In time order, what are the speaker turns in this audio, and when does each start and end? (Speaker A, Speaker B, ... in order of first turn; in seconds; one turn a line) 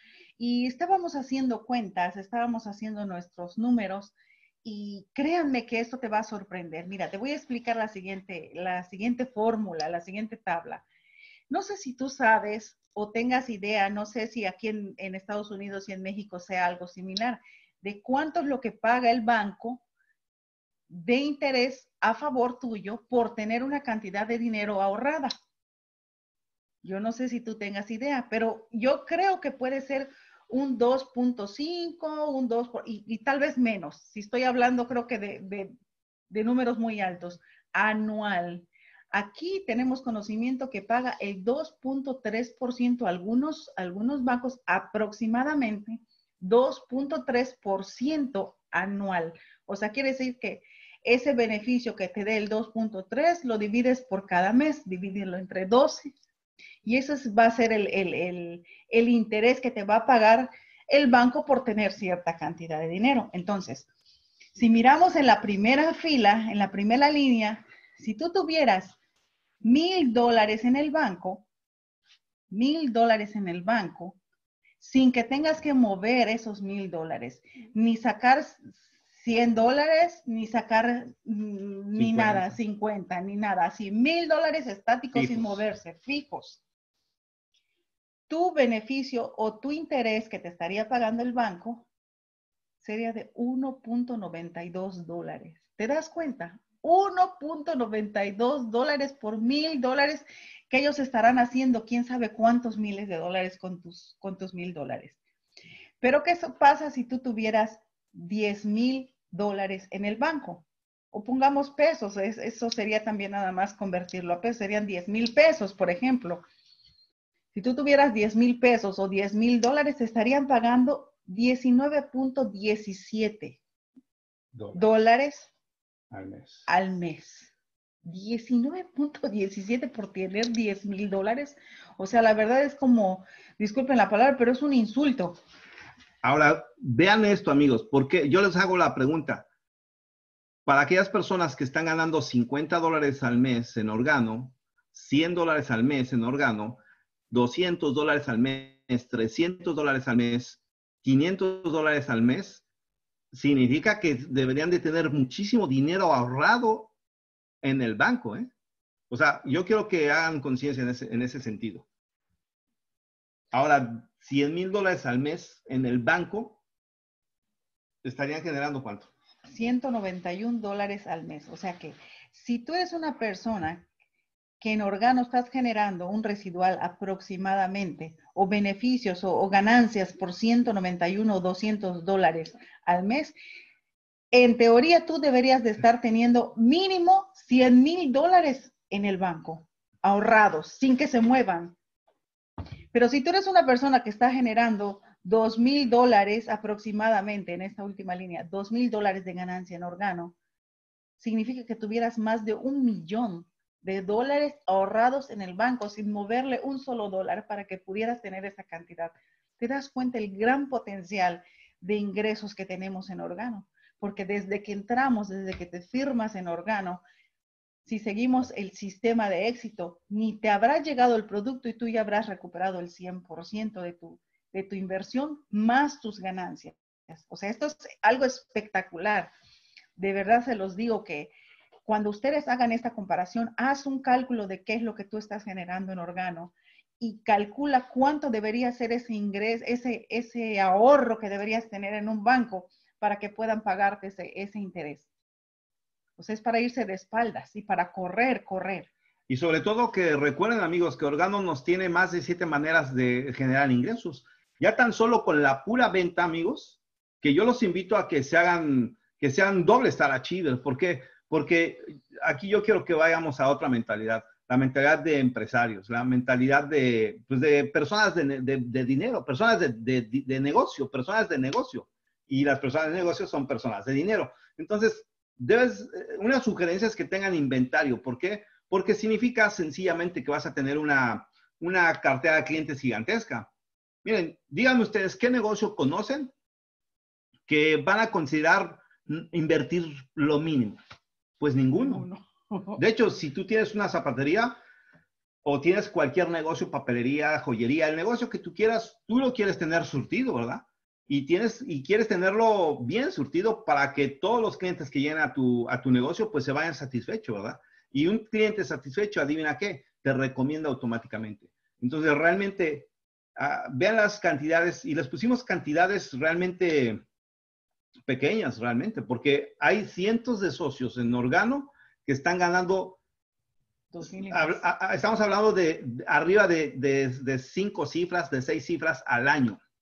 Speaker A: 0.4-10.8
Speaker A: 11.5-19.8
Speaker A: 20.9-25.3
Speaker A: 26.8-35.7
Speaker A: 36.3-56.1
Speaker A: 56.9-63.9
Speaker A: 64.5-69.0
Speaker A: 69.6-71.5
Speaker A: 72.5-74.2
Speaker A: 74.8-86.6
Speaker B: 82.0-82.5
Speaker B: 85.1-85.6
Speaker A: 88.3-91.9
Speaker A: 92.8-105.2
Speaker A: 106.0-116.4
Speaker A: 117.5-123.6
Speaker B: 124.5-124.8
Speaker A: 124.7-125.5
Speaker B: 126.1-126.7
Speaker A: 126.7-127.5
Speaker A: 128.0-135.4
Speaker B: 136.2-139.5
Speaker B: 140.7-146.8
Speaker B: 147.3-152.6
Speaker B: 153.3-156.9
Speaker B: 157.6-158.5
Speaker B: 159.1-161.9
Speaker B: 163.5-166.6
Speaker B: 168.0-169.1
Speaker A: 169.5-173.9
Speaker A: 174.6-183.4
Speaker A: 184.3-191.8
Speaker A: 192.9-200.3
Speaker A: 201.2-217.0
Speaker A: 217.9-229.3
Speaker A: 230.0-231.3
Speaker A: 231.8-245.1
Speaker A: 246.2-248.9
Speaker B: 249.3-283.5
Speaker B: 284.0-286.3
Speaker B: 287.5-290.8
Speaker B: 291.4-292.1
Speaker A: 291.8-292.8
Speaker B: 292.8-294.6
Speaker B: 295.4-317.0
Speaker B: 318.1-323.0
Speaker A: 323.9-324.6
Speaker B: 324.0-329.6